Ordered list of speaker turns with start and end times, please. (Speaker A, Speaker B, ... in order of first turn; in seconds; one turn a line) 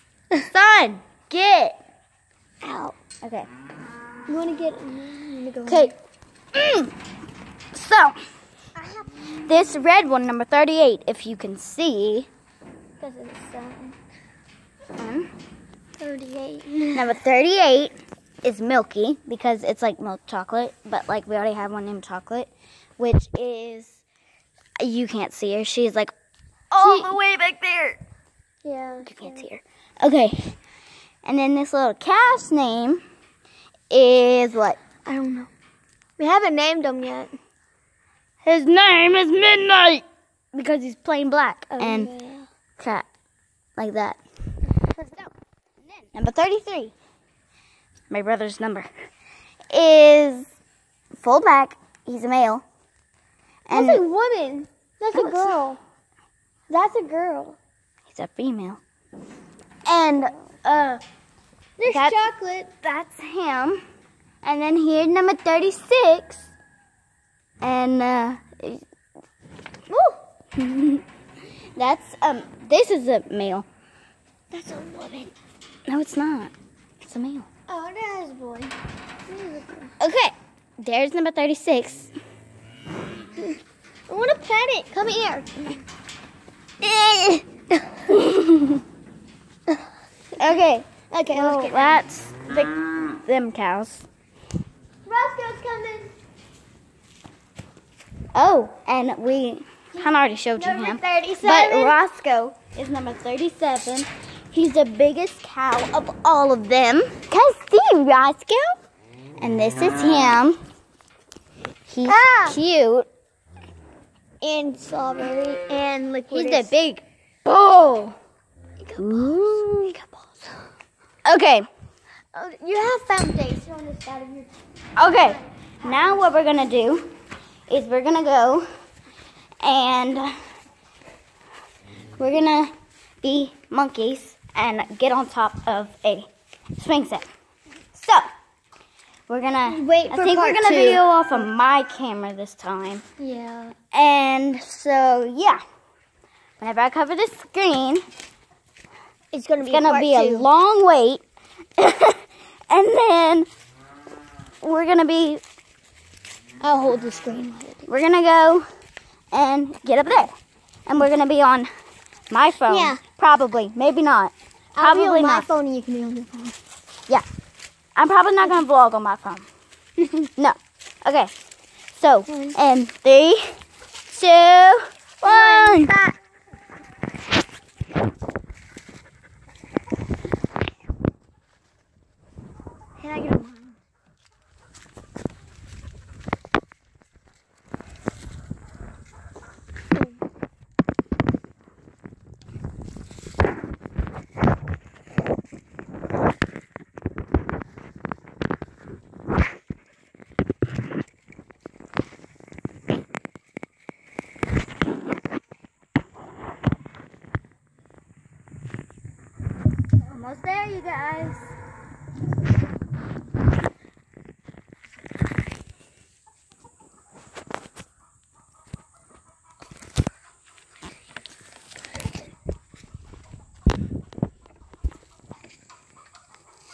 Speaker A: 0.5-1.8
Speaker B: 2.6-3.0
Speaker A: 3.2-3.5
Speaker B: 4.3-5.9
Speaker A: 5.7-5.9
Speaker A: 6.5-6.9
Speaker A: 7.7-8.2
Speaker B: 8.8-9.2
Speaker A: 9.4-12.3
Speaker B: 13.0-14.0
Speaker A: 15.0-15.3
Speaker B: 16.0-17.1
Speaker A: 16.9-24.0
Speaker A: 24.8-26.1
Speaker A: 26.7-28.0
Speaker B: 26.8-27.2
Speaker B: 28.6-29.4
Speaker A: 29.0-30.6
Speaker A: 31.2-33.0
Speaker A: 33.9-34.8
Speaker B: 35.0-35.5
Speaker B: 36.2-37.4
Speaker A: 38.4-40.0
Speaker A: 40.5-42.1
Speaker B: 41.7-42.5
Speaker A: 42.8-43.1
Speaker A: 43.8-44.2
Speaker A: 44.9-45.3
Speaker A: 46.1-46.9
Speaker A: 48.1-48.9
Speaker A: 49.7-50.5
Speaker A: 51.2-52.6
Speaker A: 53.7-54.0
Speaker B: 53.7-55.8
Speaker A: 55.1-55.6
Speaker B: 56.7-57.6
Speaker A: 58.1-58.8
Speaker A: 59.9-61.0
Speaker B: 61.8-62.7
Speaker A: 61.9-62.2
Speaker A: 62.8-63.8
Speaker A: 64.4-66.5
Speaker A: 67.6-68.8
Speaker B: 69.9-70.2
Speaker A: 70.5-71.0
Speaker A: 71.8-73.7
Speaker B: 74.5-75.3
Speaker A: 75.9-77.5
Speaker B: 77.7-78.8
Speaker B: 79.3-79.9
Speaker A: 80.0-82.1
Speaker B: 84.1-85.8
Speaker A: 86.8-87.3
Speaker B: 87.1-88.0
Speaker A: 88.1-88.8
Speaker A: 90.4-94.1
Speaker B: 91.1-92.0
Speaker B: 95.1-96.1
Speaker A: 98.3-108.8
Speaker B: 100.0-102.0
Speaker A: 109.4-110.6
Speaker A: 111.9-113.1
Speaker B: 112.1-112.6
Speaker B: 114.4-116.8
Speaker A: 116.3-118.2
Speaker B: 118.8-120.6
Speaker A: 119.0-120.0
Speaker A: 121.3-121.7
Speaker B: 122.3-124.5
Speaker A: 125.0-127.1
Speaker B: 125.1-126.2
Speaker A: 127.7-128.7
Speaker A: 129.6-130.3
Speaker A: 132.2-137.3
Speaker A: 137.9-138.2
Speaker A: 139.3-143.0
Speaker B: 139.7-141.1
Speaker B: 143.2-143.8
Speaker A: 143.9-145.6
Speaker A: 146.6-148.0
Speaker B: 149.3-150.5
Speaker A: 149.7-151.2
Speaker A: 151.8-153.5
Speaker A: 154.6-155.4
Speaker B: 156.6-157.9
Speaker A: 157.9-158.7
Speaker A: 159.3-160.3
Speaker A: 160.9-161.7
Speaker A: 162.3-165.5
Speaker B: 162.7-163.0
Speaker B: 164.8-166.3
Speaker A: 168.0-169.5
Speaker A: 170.4-171.3
Speaker A: 171.9-173.6
Speaker B: 172.3-172.6
Speaker A: 174.1-175.9
Speaker B: 175.2-176.2
Speaker B: 183.0-183.8
Speaker A: 210.0-211.5